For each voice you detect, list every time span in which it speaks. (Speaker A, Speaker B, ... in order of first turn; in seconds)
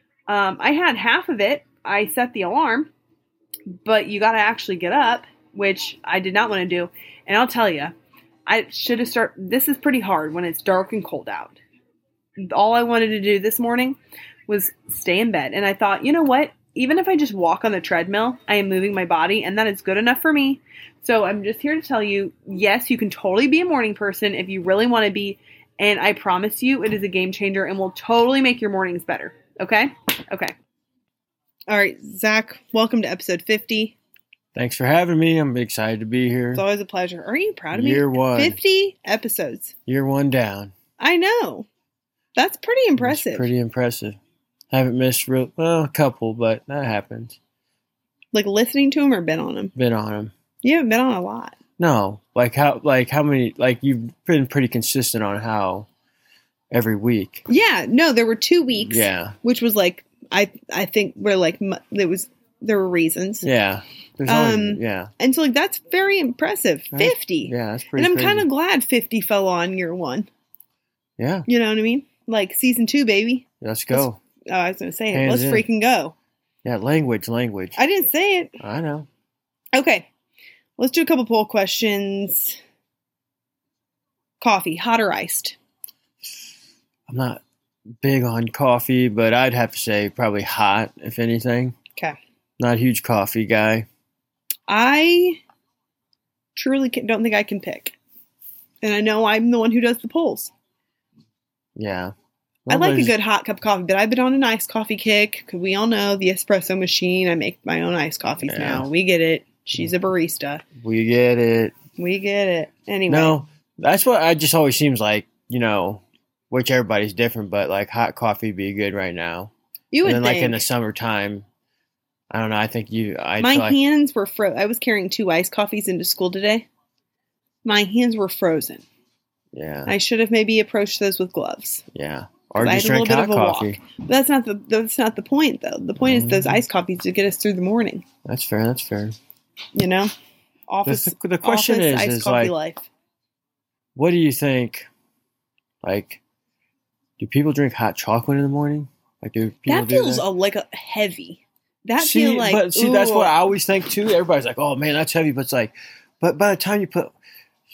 Speaker A: 0.3-2.9, 3.7-7.9, 8.5-11.6, 12.4-30.5, 31.7-34.0, 36.5-39.7, 41.0-41.7, 42.4-43.5, 48.3-49.7, 50.6-51.5, 57.5-63.5, 64.2-70.3, 71.5-76.1, 77.8-78.6, 79.7-80.1, 80.8-82.6, 84.4-85.5, 94.7-95.4, 96.5-98.0, 98.8-100.5, 102.7-110.6, 112.0-113.4, 119.9-120.6, 123.4-126.7, 127.6-128.8, 129.9-131.8, 132.6-138.0, 139.8-140.1, 140.7-142.9, 149.7-153.3
Speaker B: 34.5-36.6, 37.7-38.6, 39.9-40.7, 43.0-44.2, 44.7-47.4, 49.8-50.3, 51.8-55.9, 56.7-57.5, 58.8-59.4, 63.4-65.1, 66.9-68.5, 71.2-71.5, 73.6-74.2, 75.1-75.6, 76.6-77.8, 78.6-79.1, 87.1-87.4, 88.0-91.8, 92.6-93.9, 101.8-102.1, 102.7-103.1, 108.5-108.9, 110.8-111.8, 113.1-119.5, 120.0-121.4, 122.3-123.8, 129.5-129.9, 131.9-133.8, 136.0-136.6, 138.2-139.2, 140.9-142.5, 143.9-144.9, 145.8-146.2, 147.2-150.2, 152.0-157.1